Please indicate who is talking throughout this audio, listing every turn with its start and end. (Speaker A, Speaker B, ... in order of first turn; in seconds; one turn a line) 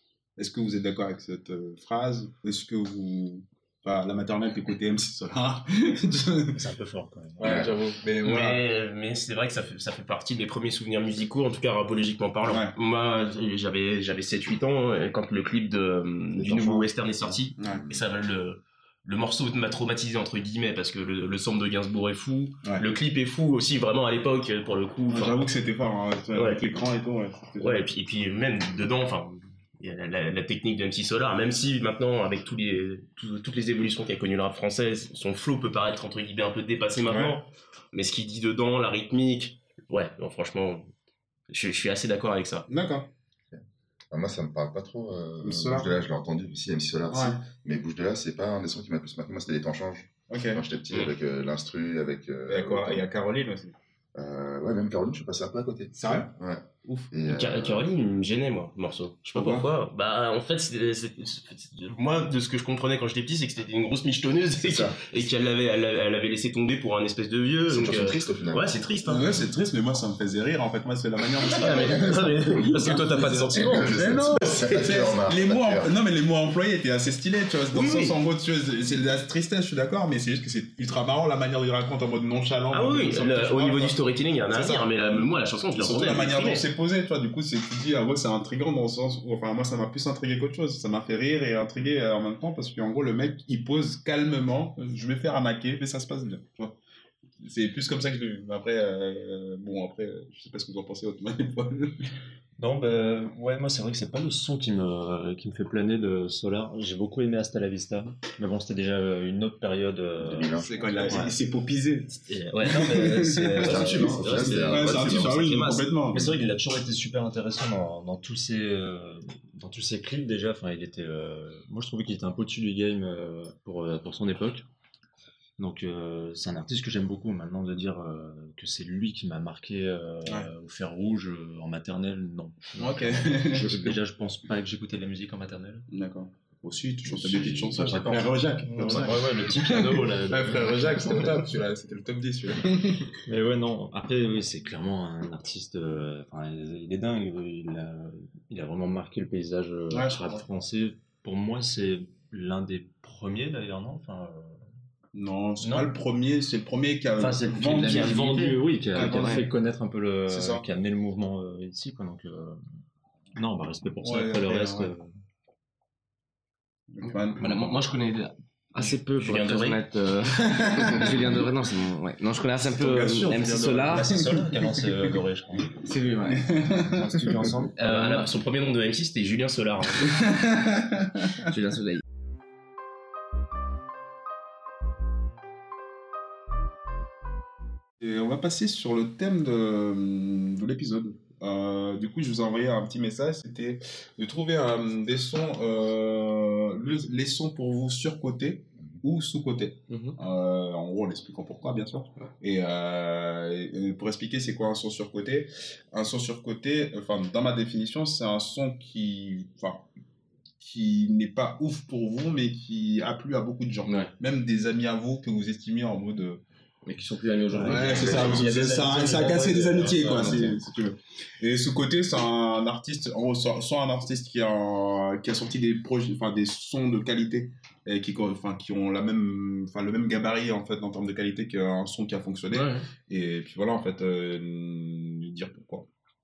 Speaker A: 0.4-6.6
Speaker B: 6.5-7.7
Speaker A: 7.4-8.6
Speaker C: 7.4-7.8
Speaker D: 8.2-25.4
Speaker A: 12.4-12.7
Speaker C: 16.3-18.0
Speaker A: 25.1-27.9
Speaker D: 26.3-26.9
Speaker D: 27.6-40.9
Speaker A: 37.0-37.4
Speaker D: 41.5-42.7
Speaker A: 42.7-43.1
Speaker C: 43.5-53.1
Speaker A: 45.4-45.9
Speaker A: 47.1-47.4
Speaker A: 50.3-50.6
Speaker A: 52.5-53.8
Speaker C: 54.1-57.9
Speaker A: 56.0-56.3
Speaker D: 57.3-69.4
Speaker A: 59.4-59.7
Speaker C: 64.6-65.0
Speaker C: 67.7-68.8
Speaker A: 69.1-83.9
Speaker D: 71.5-74.2
Speaker C: 73.5-75.9
Speaker D: 77.7-78.2
Speaker D: 82.7-86.7
Speaker A: 84.5-96.8
Speaker A: 97.4-102.1
Speaker B: 102.6-111.3
Speaker C: 110.2-111.2
Speaker A: 110.6-116.4
Speaker B: 112.2-124.7
Speaker C: 113.6-115.5
Speaker E: 113.7-115.8
Speaker B: 125.6-135.9
Speaker A: 132.8-133.9
Speaker A: 135.9-143.1
Speaker B: 137.2-141.4
Speaker C: 137.3-137.7
Speaker B: 143.3-154.7
Speaker A: 149.9-150.5
Speaker A: 155.1-159.5
Speaker B: 155.6-155.9
Speaker B: 157.2-162.6
Speaker E: 157.4-159.5
Speaker A: 160.3-160.7
Speaker B: 163.4-165.1
Speaker A: 164.0-164.9
Speaker A: 166.9-167.4
Speaker E: 167.4-174.2
Speaker D: 169.2-169.8
Speaker A: 170.5-171.1
Speaker A: 172.8-173.8
Speaker D: 173.2-174.0
Speaker B: 173.9-175.8
Speaker E: 175.8-176.7
Speaker A: 176.3-177.1
Speaker B: 176.8-178.3
Speaker D: 177.8-180.2
Speaker A: 180.1-181.5
Speaker E: 181.4-182.0
Speaker A: 188.0-209.9
Speaker E: 199.9-200.2
Speaker A: 210.6-216.4
Speaker E: 213.8-214.1
Speaker E: 216.8-220.6
Speaker A: 217.5-235.9
Speaker D: 218.1-218.5
Speaker E: 232.5-232.9